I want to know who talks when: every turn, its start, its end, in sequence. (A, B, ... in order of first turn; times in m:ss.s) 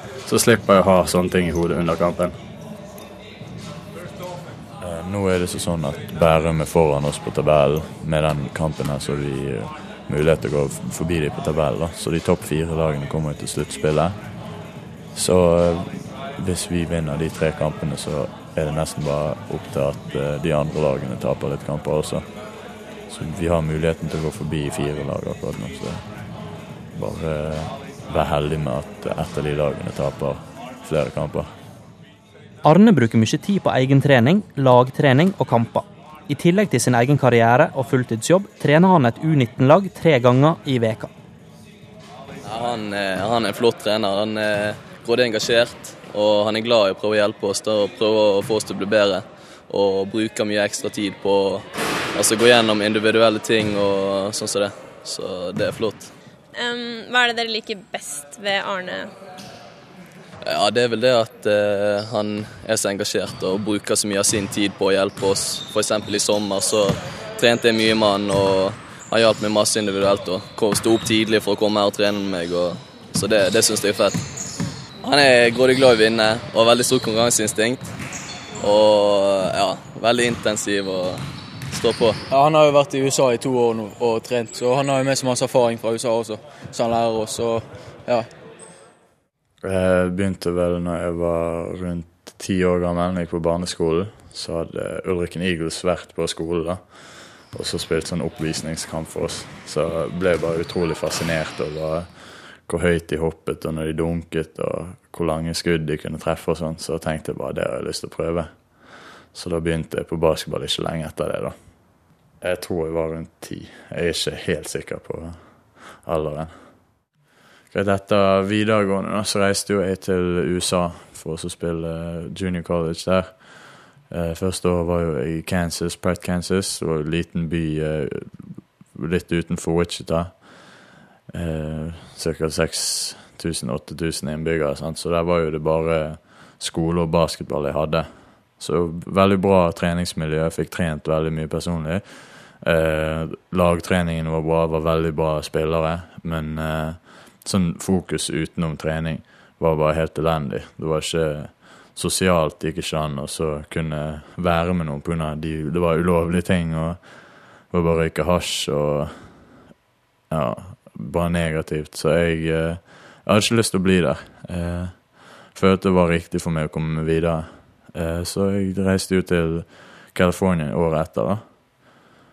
0:00.2-0:02.4 A
0:04.8-0:14.3 A
0:15.1-0:22.5 A
0:23.1-0:26.1 A
0:26.9-0:31.5 A
0:32.6-0:41.1 B
0:42.4-0:56.1 C
0:56.5-0:59.1 D
1:00.4-1:14.2 C
1:15.0-1:17.9 C
1:18.6-1:22.2 C
1:22.3-1:28.3 E
1:29.6-1:51.6 A
1:52.4-1:56.8 A
1:57.7-2:39.6 A
2:40.3-2:51.9 A